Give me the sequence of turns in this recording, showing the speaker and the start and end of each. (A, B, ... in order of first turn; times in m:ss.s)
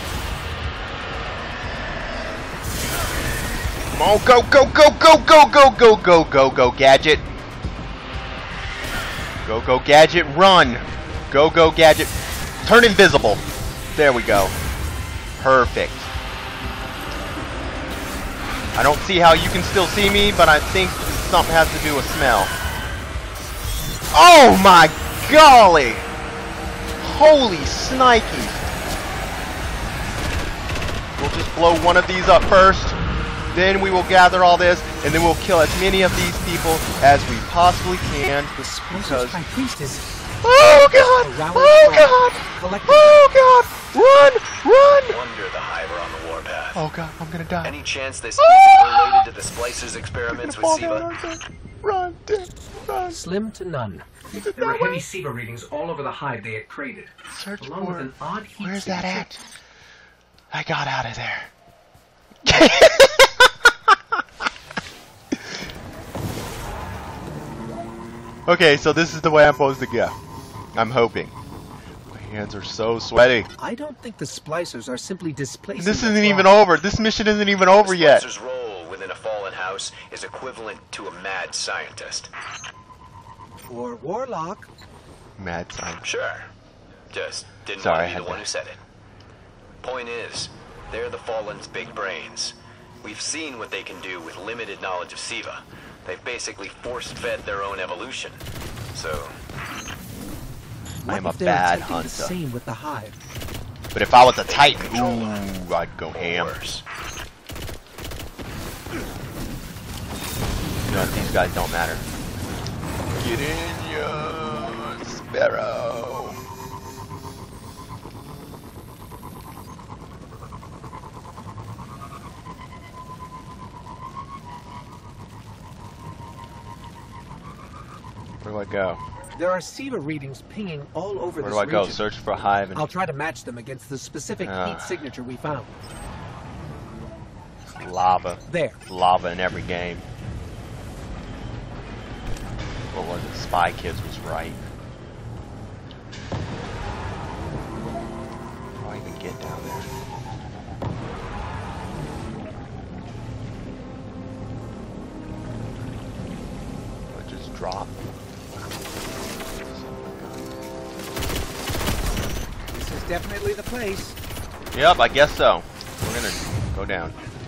0:03.9-0:07.2 A
0:09.4-0:12.1 A
0:12.6-0:14.6 A
0:15.4-0:16.1 A
0:18.7-0:22.5 A
0:24.1-0:26.1 A
0:27.0-0:28.6 A
0:31.2-0:33.0 A
0:33.5-0:39.4 A
0:38.6-0:40.1 B
0:40.4-0:45.2 A
0:40.8-0:43.3 B
0:44.8-0:46.8 C
0:46.7-0:47.7 A
0:47.6-0:51.1 C
0:48.4-0:49.2 A
0:50.3-0:53.2 A
0:53.1-0:59.3 B
0:54.4-0:55.0 A
0:57.3-0:59.4 A
1:00.5-1:01.5 A
1:02.4-1:04.0 A
1:08.5-1:10.1 A
1:10.7-1:11.4 A
1:12.1-1:13.5 A
1:13.6-1:16.5 B
1:15.8-1:18.2 A
1:17.8-1:22.3 C
1:23.7-1:24.7 B
1:25.4-1:26.0 A
1:26.0-1:26.5 C
1:27.1-1:28.8 C
1:27.8-1:28.5 A
1:29.8-1:38.4 C
1:38.9-1:39.3 C
1:41.0-1:43.2 B
1:41.1-1:42.4 A
1:43.9-1:46.5 A
1:44.5-1:45.5 C
1:46.1-1:46.8 C
1:50.9-1:52.0 A
1:53.2-1:56.4 A
2:08.4-2:09.0 A
2:09.3-2:12.1 B
2:11.4-2:12.9 A
2:12.7-2:15.7 B
2:14.4-2:15.0 A
2:17.7-2:20.0 A
2:18.5-2:18.8 B
2:22.9-2:24.6 A
2:28.8-2:29.9 A
2:37.1-2:37.9 A
2:38.5-2:40.5 A
2:42.7-2:44.2 B
2:44.7-2:47.1 A